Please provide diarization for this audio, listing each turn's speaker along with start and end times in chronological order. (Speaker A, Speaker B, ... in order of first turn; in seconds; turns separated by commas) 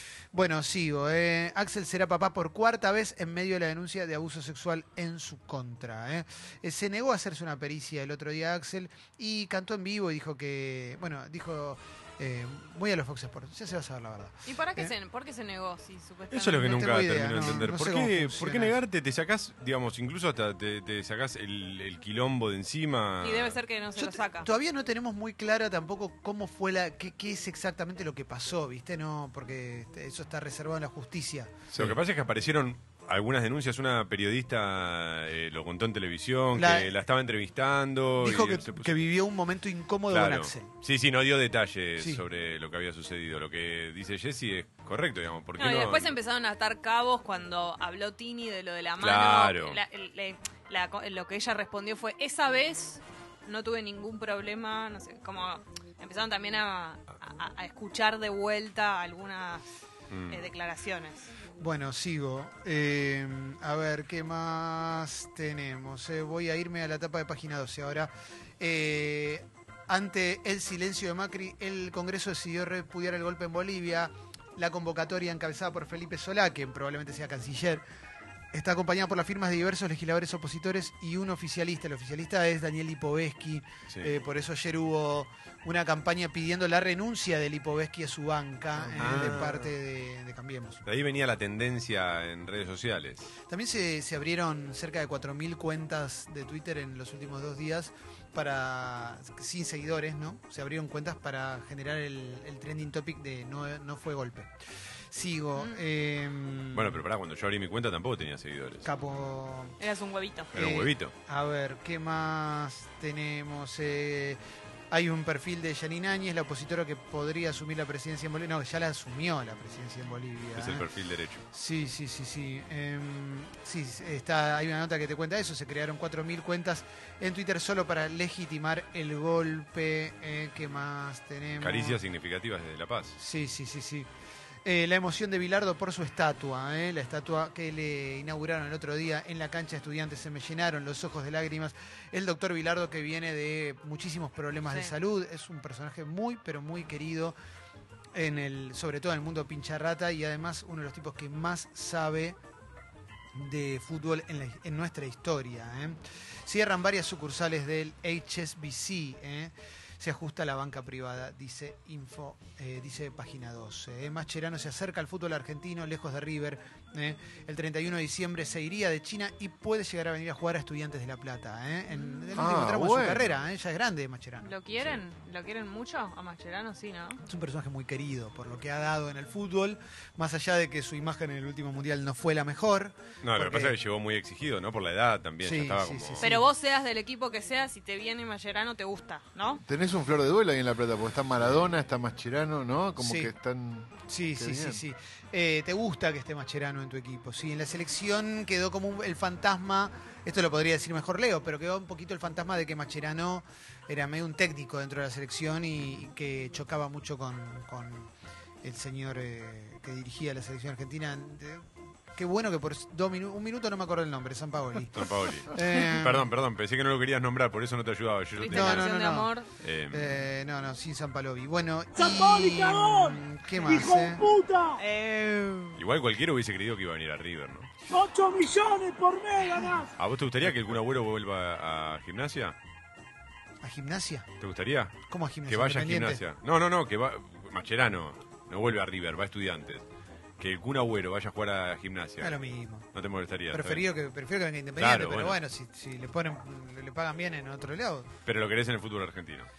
Speaker A: 0.3-14.9, Speaker B: 14.5-16.8, Speaker C: 16.3-23.6, Speaker A: 16.6-18.7, Speaker B: 23.2-24.5, Speaker A: 24.0-31.9, Speaker C: 31.7-39.0, Speaker A: 36.5-36.9, Speaker A: 38.2-40.7, Speaker C: 40.1-46.1, Speaker B: 45.6-59.6, Speaker C: 49.0-49.8, Speaker C: 60.1-60.4, Speaker B: 60.3-61.3, Speaker A: 61.6-77.8, Speaker A: 78.5-90.8, Speaker D: 88.8-89.7, Speaker C: 89.0-89.7, Speaker C: 90.9-93.3, Speaker A: 93.5-104.5, Speaker A: 105.1-107.0, Speaker B: 105.6-105.8, Speaker C: 106.7-108.9, Speaker A: 108.8-109.8, Speaker B: 109.8-110.5, Speaker C: 110.5-111.1, Speaker A: 110.5-114.4, Speaker A: 114.9-120.8, Speaker C: 120.6-121.4, Speaker A: 121.5-132.0, Speaker C: 131.6-133.2, Speaker A: 133.2-134.1, Speaker A: 134.7-147.4, Speaker A: 148.1-152.4, Speaker A: 153.3-174.5, Speaker B: 171.9-172.4, Speaker D: 172.4-173.3, Speaker B: 174.4-177.2, Speaker A: 177.3-183.7, Speaker C: 183.2-186.2, Speaker A: 185.4-186.5, Speaker B: 186.2-189.6, Speaker D: 189.6-194.8, Speaker A: 193.0-193.3, Speaker A: 194.1-208.1, Speaker A: 208.6-216.3, Speaker C: 215.0-218.9, Speaker B: 218.4-219.5, Speaker A: 218.5-219.3, Speaker C: 219.6-220.2, Speaker A: 219.9-224.3, Speaker E: 222.1-222.7, Speaker E: 224.0-224.7, Speaker B: 224.8-225.8, Speaker C: 225.8-227.7, Speaker E: 228.1-229.3, Speaker A: 229.4-229.9, Speaker C: 230.0-232.6, Speaker A: 233.6-234.3, Speaker C: 234.4-235.0, Speaker A: 235.1-236.2, Speaker C: 235.5-239.8, Speaker C: 240.4-242.4, Speaker A: 242.2-242.9, Speaker C: 242.9-243.8, Speaker A: 243.5-248.1, Speaker C: 244.8-245.4, Speaker C: 248.3-249.5